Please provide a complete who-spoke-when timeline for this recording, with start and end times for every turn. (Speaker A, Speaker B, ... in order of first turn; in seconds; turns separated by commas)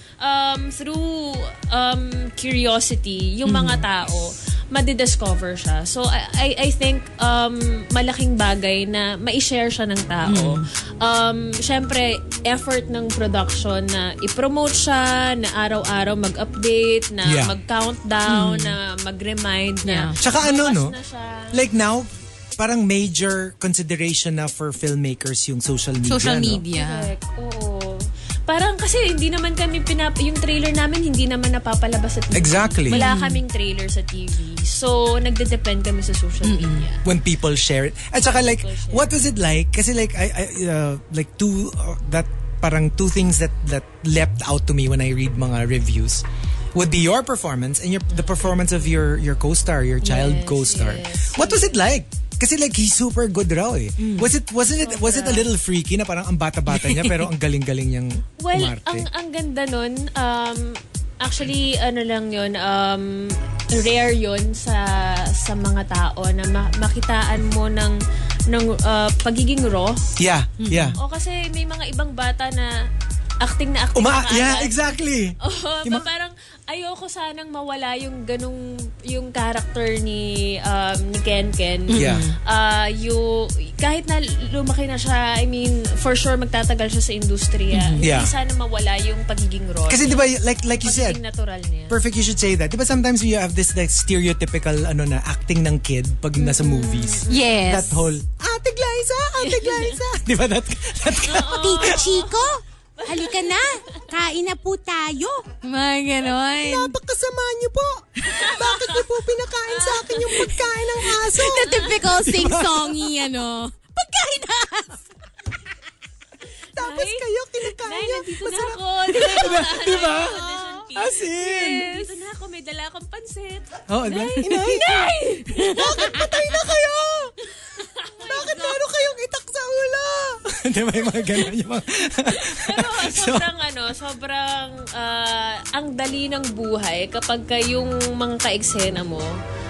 Speaker A: 0.2-21.6, Speaker B: 3.4-3.8, Speaker B: 10.2-10.6, Speaker C: 17.2-17.6, Speaker B: 18.2-18.8, Speaker B: 19.8-20.1, Speaker C: 20.2-20.9, Speaker C: 21.5-26.6, Speaker B: 26.0-27.1, Speaker A: 26.7-37.0, Speaker C: 32.3-33.0, Speaker B: 32.9-33.4, Speaker B: 36.4-36.9, Speaker C: 37.0-59.1, Speaker A: 38.2-39.0, Speaker A: 48.1-48.4, Speaker A: 50.0-51.8, Speaker B: 54.0-54.3, Speaker A: 54.8-55.5, Speaker B: 56.7-57.3, Speaker A: 58.4-70.0, Speaker C: 70.2-71.0, Speaker B: 70.6-71.0, Speaker A: 71.0-72.8, Speaker A: 73.4-90.2, Speaker C: 73.9-76.1, Speaker B: 81.9-82.3, Speaker C: 82.0-82.2, Speaker B: 87.7-88.1, Speaker C: 88.0-88.3, Speaker C: 89.9-91.2, Speaker A: 90.8-92.0, Speaker C: 91.9-102.0, Speaker A: 96.4-97.6, Speaker B: 97.3-98.0, Speaker A: 99.4-100.0, Speaker A: 101.2-104.1, Speaker B: 101.4-107.0, Speaker C: 106.5-113.1, Speaker B: 108.2-108.5, Speaker A: 108.3-109.1, Speaker A: 109.7-110.5, Speaker B: 110.3-115.0, Speaker C: 116.8-120.4, Speaker A: 116.8-117.2, Speaker A: 117.8-126.5, Speaker B: 120.3-120.8, Speaker C: 120.9-122.0, Speaker C: 123.9-125.0, Speaker B: 124.4-126.0, Speaker C: 125.5-127.3, Speaker A: 127.7-128.8, Speaker C: 128.2-133.5, Speaker A: 132.3-139.3